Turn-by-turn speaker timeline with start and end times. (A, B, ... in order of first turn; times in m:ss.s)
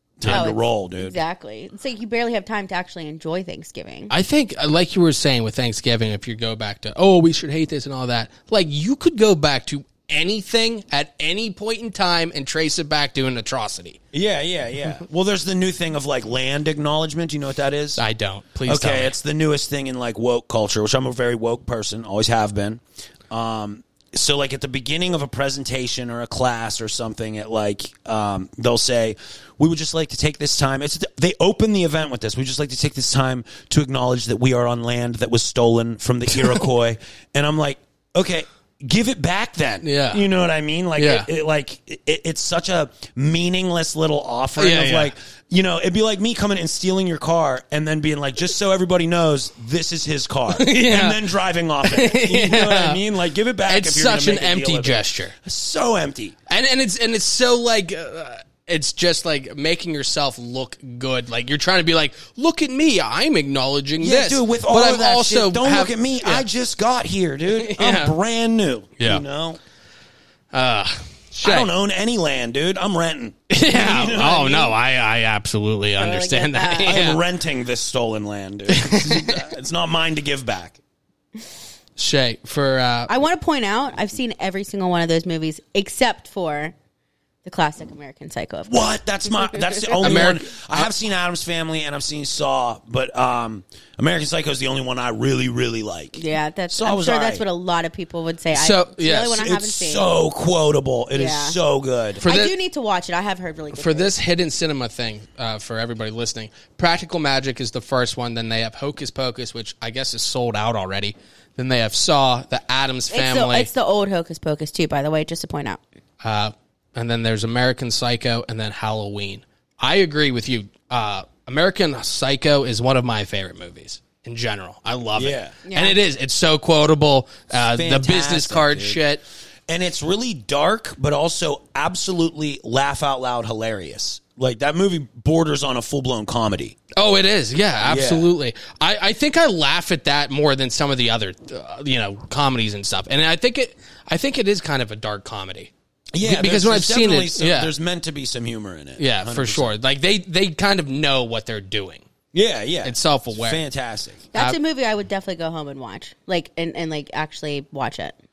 0:00.2-0:01.2 A
0:00.3-0:04.1 B
0:04.1-0:14.0 C
0:14.1-0:18.0 A
0:18.0-0:19.1 C
0:18.6-0:56.4 A
0:39.8-0:40.3 C
0:41.0-0:41.3 C
0:44.6-0:45.1 C
0:50.5-0:51.3 C
0:51.8-0:53.0 C
0:53.6-0:55.4 C
0:56.5-1:06.4 C
1:04.0-1:09.6 A
1:07.5-1:08.1 C
1:10.5-1:11.7 C
1:11.4-1:14.8 A
1:13.5-1:17.2 C
1:16.0-1:16.9 B
1:16.8-1:20.8 A
1:18.7-1:19.5 C
1:22.0-1:23.1 C
1:23.1-1:26.7 B
1:27.4-1:28.9 B
1:28.7-1:37.4 A
1:29.4-1:30.0 B
1:30.0-1:30.9 C
1:36.2-1:40.1 B
1:38.5-1:39.4 C
1:39.3-1:42.2 A
1:41.1-1:41.6 B
1:42.2-1:42.5 C
1:42.2-1:44.1 B
1:43.7-1:53.7 C
1:53.1-1:55.8 B
1:56.2-2:09.2 C
2:05.2-2:05.6 A
2:05.6-2:06.0 B
2:07.5-2:09.0 A
2:09.7-2:16.8 A
2:16.9-2:27.7 C
2:17.8-2:18.3 A
2:26.1-2:29.7 A
2:29.0-2:32.0 C
2:32.3-2:34.2 A
2:32.8-2:33.6 C
2:34.3-2:38.2 B